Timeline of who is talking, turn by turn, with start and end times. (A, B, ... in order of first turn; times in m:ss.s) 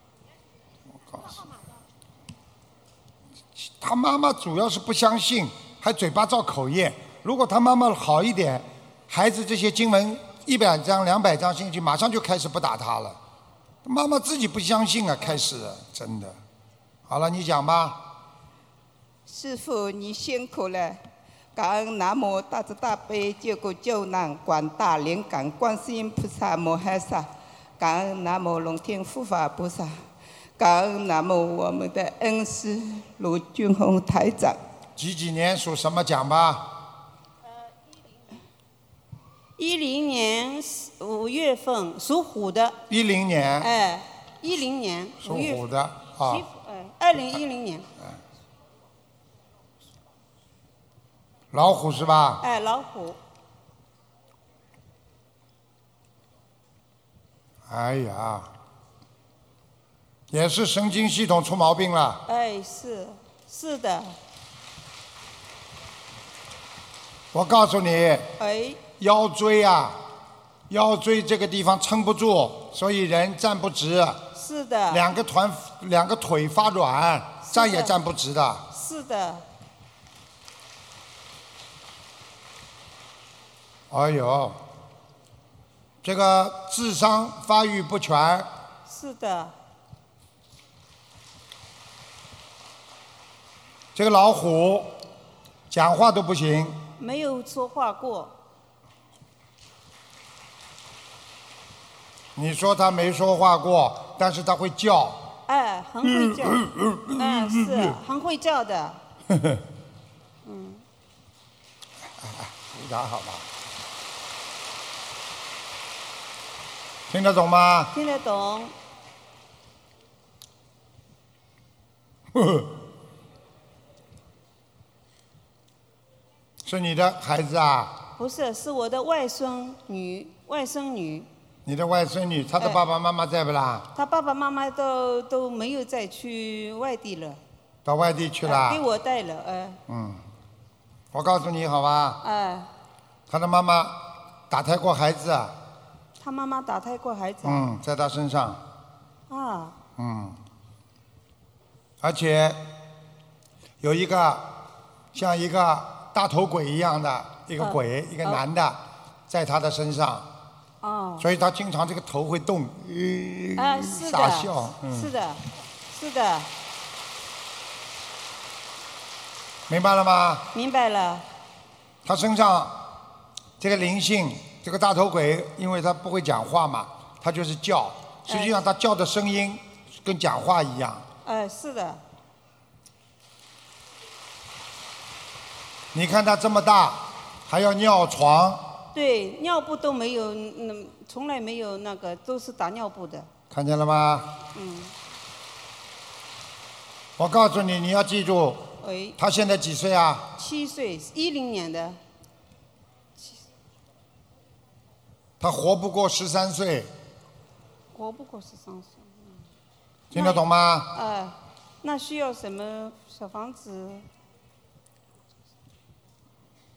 0:01.1-0:01.4 A
0:03.6-0:13.2 A
0:13.8-0:16.4 A
0:17.1-0:18.1 A
0:19.3-0:21.0 B
0:21.6-0:27.3 B
0:27.8-0:30.0 B
0:30.6-0:34.6 B
0:35.0-0:36.7 A
0:39.6-0:42.8 C
0:42.9-0:43.7 A
0:43.6-0:45.7 C
0:45.2-0:46.4 A
0:46.2-0:47.9 C
0:51.5-0:52.4 A
0:52.4-0:53.2 C
0:57.7-0:58.5 A
1:00.3-1:02.2 A
1:02.3-1:04.2 C
1:07.3-1:08.3 A
1:08.4-1:08.8 C
1:09.0-1:10.0 A
1:10.7-1:14.3 A
1:14.4-1:15.0 C
1:14.9-1:18.7 A
1:17.5-1:18.0 C
1:18.7-1:19.4 C
1:23.9-1:24.6 A
1:26.0-1:28.5 A
1:28.9-1:29.5 C
1:34.0-1:35.0 A
1:35.7-1:36.8 A
1:37.0-1:38.3 C
1:42.4-1:45.3 A
1:45.5-1:49.0 C
1:46.1-1:47.9 A
1:50.4-1:50.8 C
1:52.2-1:53.5 A
1:57.1-1:57.9 A
1:57.9-1:58.7 C
2:02.3-2:02.7 A
2:06.6-2:08.0 A
2:08.2-2:11.3 C
2:11.6-2:13.9 A
2:14.0-2:17.4 C
2:17.8-2:18.8 A
2:18.4-2:19.8 C
2:19.9-2:20.2 A
2:21.1-2:22.2 A
2:22.2-2:22.7 C
2:23.3-2:25.6 A
2:26.2-2:27.7 C
2:27.4-2:28.6 A
2:29.3-2:29.8 C
2:30.0-2:30.4 A
2:32.0-2:32.7 A
2:33.8-2:34.6 A
2:35.1-2:40.3 A
2:37.6-2:38.4 C
2:40.8-2:41.3 C
2:41.2-2:45.1 A
2:43.6-2:46.5 C
2:49.7-2:50.5 A
2:50.5-2:51.2 C
2:52.0-2:52.8 A
2:53.6-3:01.1 A
2:58.3-2:58.6 C
3:01.2-3:02.0 C
3:05.9-3:08.7 A
3:08.9-3:13.3 C
3:13.5-3:14.3 A
3:14.5-3:14.9 C
3:17.2-3:20.3 A
3:18.8-3:19.2 C
3:20.4-3:22.0 C
3:25.4-3:26.9 A
3:27.9-3:29.4 C
3:30.1-3:30.9 A
3:30.1-3:34.0 C